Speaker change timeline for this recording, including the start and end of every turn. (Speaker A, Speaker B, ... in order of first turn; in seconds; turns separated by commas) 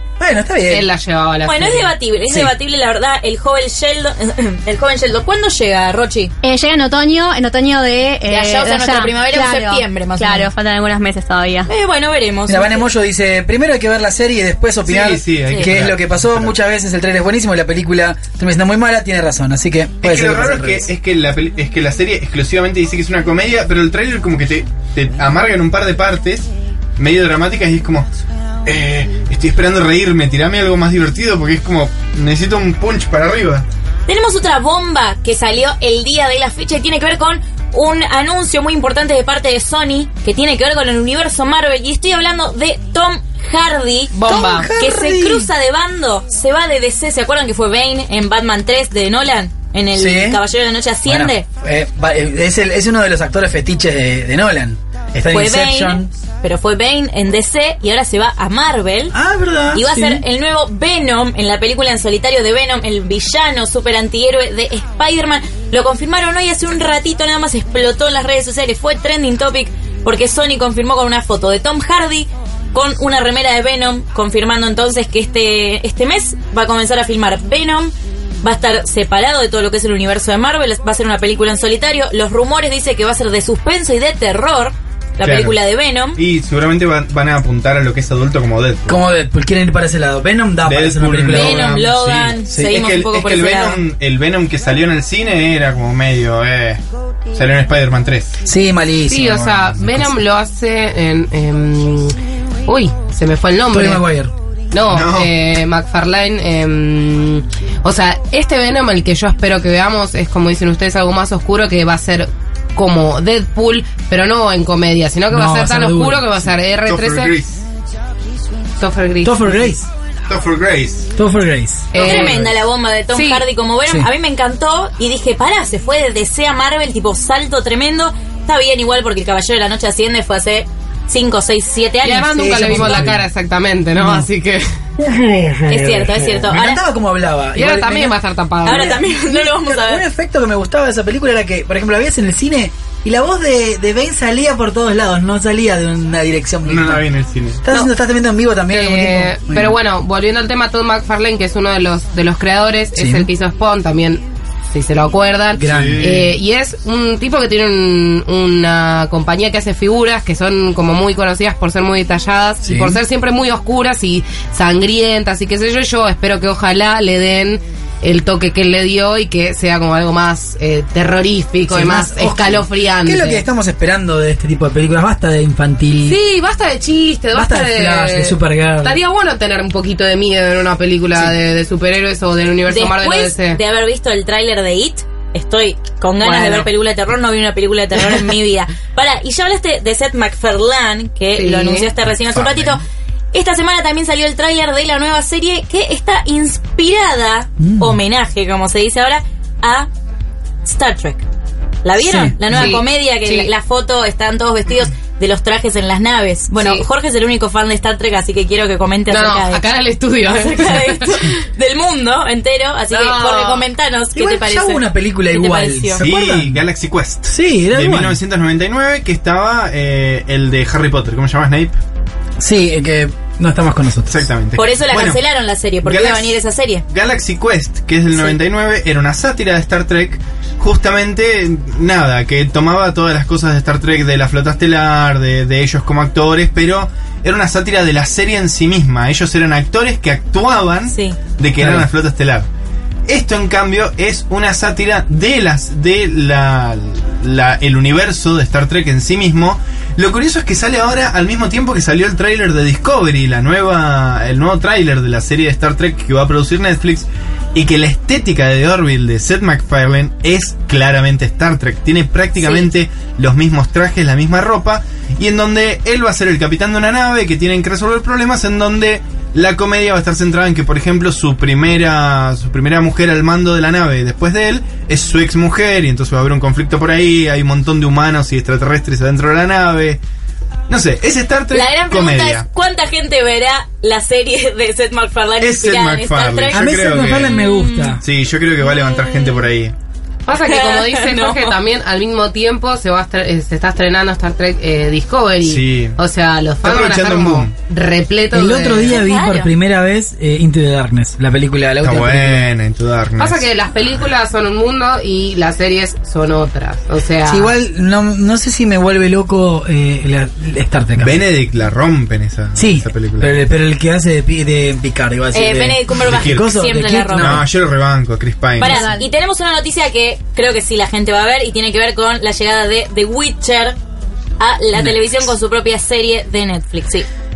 Speaker A: 0.2-0.8, Speaker B: 0.7-1.9, Speaker C: 1.4-6.3, Speaker A: 2.3-2.5, Speaker D: 6.4-11.7, Speaker C: 8.3-10.5, Speaker C: 11.7-12.8, Speaker A: 12.5-20.9, Speaker E: 14.8-16.5, Speaker E: 20.0-28.1, Speaker E: 28.6-33.6, Speaker C: 34.1-51.5, Speaker B: 44.1-44.7, Speaker A: 44.2-45.5, Speaker A: 49.9-50.4, Speaker A: 51.0-56.1, Speaker C: 55.3-59.1, Speaker A: 59.1-60.2, Speaker C: 59.7-86.2, Speaker E: 85.2-85.6, Speaker E: 86.2-89.0, Speaker A: 88.9-91.8, Speaker E: 90.7-96.8, Speaker C: 91.3-93.8, Speaker A: 92.5-92.7, Speaker E: 97.3-98.4, Speaker A: 98.4-99.5, Speaker B: 99.0-104.0, Speaker E: 99.5-100.1, Speaker A: 103.7-104.3, Speaker B: 104.7-117.3, Speaker E: 104.9-105.3, Speaker A: 115.3-116.3, Speaker E: 116.8-117.6, Speaker B: 118.8-119.7, Speaker A: 119.2-119.9, Speaker E: 120.3-121.1, Speaker A: 121.1-122.0, Speaker B: 121.9-122.4, Speaker C: 121.9-133.1, Speaker E: 122.0-122.5, Speaker B: 123.1-123.4, Speaker B: 132.0-134.7, Speaker A: 132.4-133.3, Speaker A: 134.0-134.3, Speaker A: 135.0-147.0, Speaker C: 135.7-136.8, Speaker B: 137.5-139.0, Speaker C: 138.6-140.0, Speaker E: 146.7-147.6, Speaker A: 147.6-149.8, Speaker B: 148.7-154.2, Speaker A: 152.9-153.3, Speaker B: 154.7-173.4, Speaker A: 155.5-156.2, Speaker E: 155.6-156.3, Speaker A: 162.6-163.0, Speaker A: 171.7-176.2, Speaker B: 176.1-183.6, Speaker A: 177.3-179.0, Speaker C: 182.7-192.8, Speaker B: 186.2-186.7, Speaker B: 191.3-191.9, Speaker E: 192.1-192.8, Speaker C: 193.3-199.9, Speaker A: 197.6-198.0, Speaker C: 200.6-201.2, Speaker C: 201.8-209.7, Speaker A: 202.0-202.8, Speaker B: 202.5-203.5, Speaker B: 206.5-206.9, Speaker B: 209.1-211.2, Speaker C: 210.2-216.0, Speaker B: 212.9-213.7, Speaker A: 214.1-216.6, Speaker E: 216.0-221.8, Speaker A: 217.3-218.2, Speaker A: 222.4-224.2, Speaker E: 224.1-225.2, Speaker C: 224.6-226.8, Speaker E: 225.8-242.5, Speaker C: 240.9-241.2, Speaker A: 241.6-241.9, Speaker E: 243.1-280.0, Speaker C: 262.4-262.7, Speaker E: 280.7-282.4, Speaker C: 281.5-288.0, Speaker E: 285.4-289.7, Speaker A: 286.5-288.0, Speaker C: 288.8-289.1, Speaker B: 290.2-299.0, Speaker C: 290.3-291.6, Speaker E: 295.4-296.0, Speaker E: 296.6-297.5, Speaker A: 298.3-302.5, Speaker C: 298.9-299.5, Speaker E: 301.8-303.5, Speaker B: 303.2-307.5, Speaker A: 307.3-311.2, Speaker E: 311.0-313.4, Speaker A: 312.6-317.4, Speaker C: 315.3-317.4, Speaker E: 316.0-316.5, Speaker E: 317.1-318.9, Speaker C: 318.6-323.8, Speaker C: 324.4-327.1